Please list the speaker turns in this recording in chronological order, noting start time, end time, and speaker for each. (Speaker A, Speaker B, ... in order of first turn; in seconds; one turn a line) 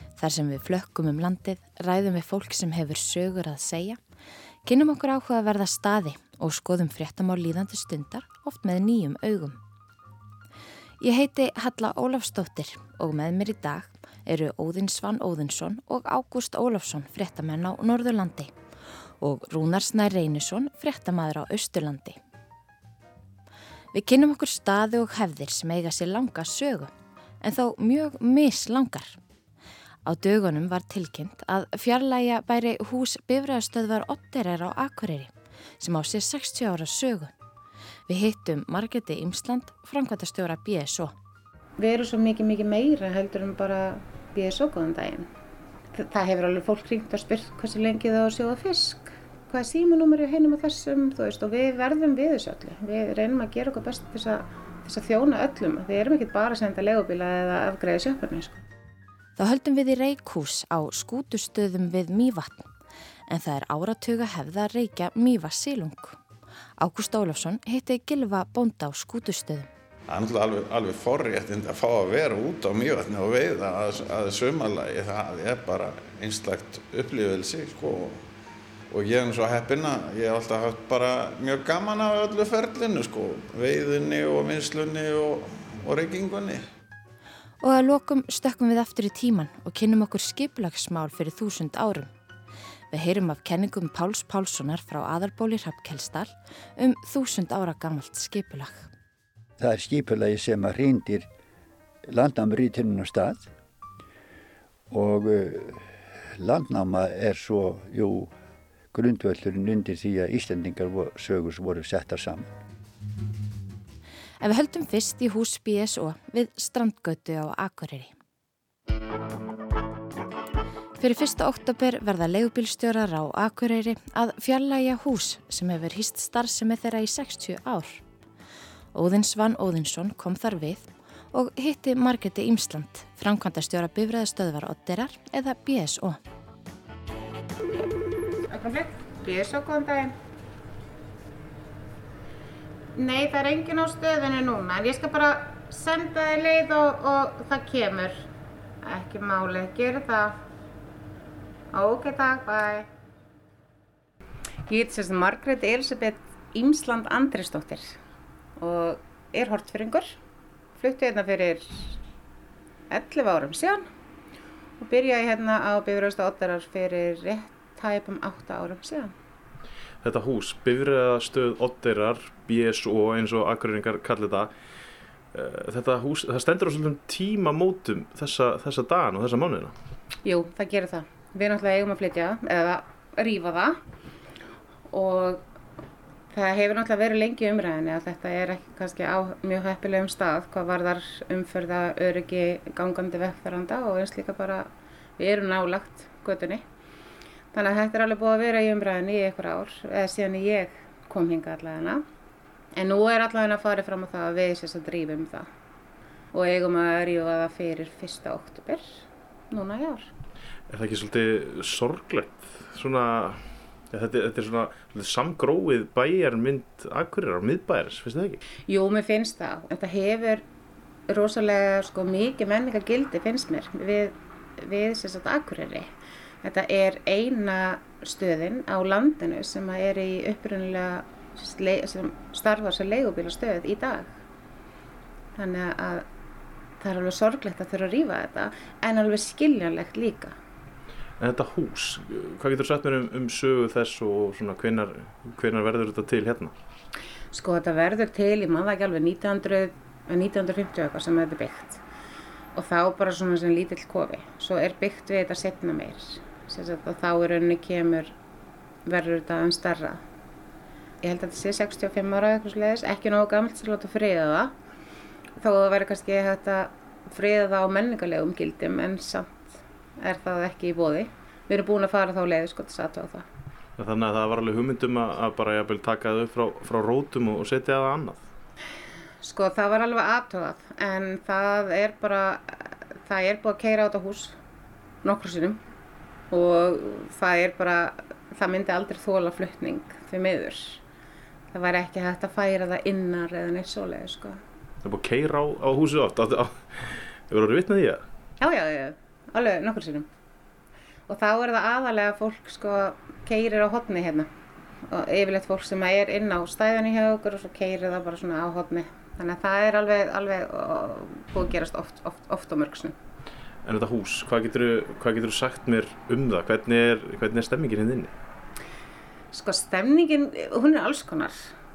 Speaker A: 0.2-4.0
Speaker A: 4.6-9.6
Speaker A: 11.0-18.5
Speaker A: 19.2-22.2
Speaker A: 23.9-26.9
Speaker A: 27.4-29.2
Speaker A: 30.0-37.3
Speaker A: 38.1-41.1
Speaker B: 41.8-45.3
Speaker B: 45.9-58.6
Speaker A: 59.4-62.7
Speaker A: 63.3-66.2
Speaker A: 66.8-69.7
Speaker C: 70.1-78.2
Speaker C: 78.9-86.6
Speaker A: 87.6-92.1
Speaker A: 92.9-98.9
Speaker D: 99.6-101.3
Speaker D: 102.1-103.5
Speaker D: 104.9-108.3
Speaker D: 108.9-112.5
Speaker A: 114.4-118.1
Speaker A: 121.0-128.0
Speaker A: 128.9-136.2
Speaker B: 138.5-140.2
Speaker B: 142.9-148.2
Speaker B: 148.8-150.4
Speaker B: 151.7-152.9
Speaker B: 154.7-158.0
Speaker B: 158.6-160.2
Speaker B: 160.8-161.9
Speaker B: 162.9-163.9
Speaker B: 164.8-169.1
Speaker E: 170.0-174.5
Speaker E: 175.3-179.7
Speaker B: 180.2-183.8
Speaker B: 184.9-185.4
Speaker B: 186.3-196.6
Speaker B: 197.5-202.0
Speaker B: 202.7-205.5
Speaker B: 206.3-208.9
Speaker B: 209.5-210.1
Speaker E: 210.7-218.4
Speaker B: 218.7-220.4
Speaker B: 221.1-225.9
Speaker B: 226.4-234.1
Speaker B: 235.3-236.0
Speaker B: 236.8-240.3
Speaker E: 241.2-246.5
Speaker B: 247.3-251.8
Speaker B: 252.5-258.1
Speaker B: 258.9-260.0
Speaker B: 261.0-264.5
Speaker B: 265.4-273.3
Speaker E: 273.8-278.2
Speaker B: 279.2-284.4
Speaker B: 285.0-285.6
Speaker B: 286.3-290.8
Speaker B: 291.5-294.4
Speaker E: 294.8-298.0
Speaker B: 298.4-300.1
Speaker B: 301.1-304.3
Speaker B: 304.9-312.9
Speaker E: 313.6-318.1
Speaker B: 319.3-321.4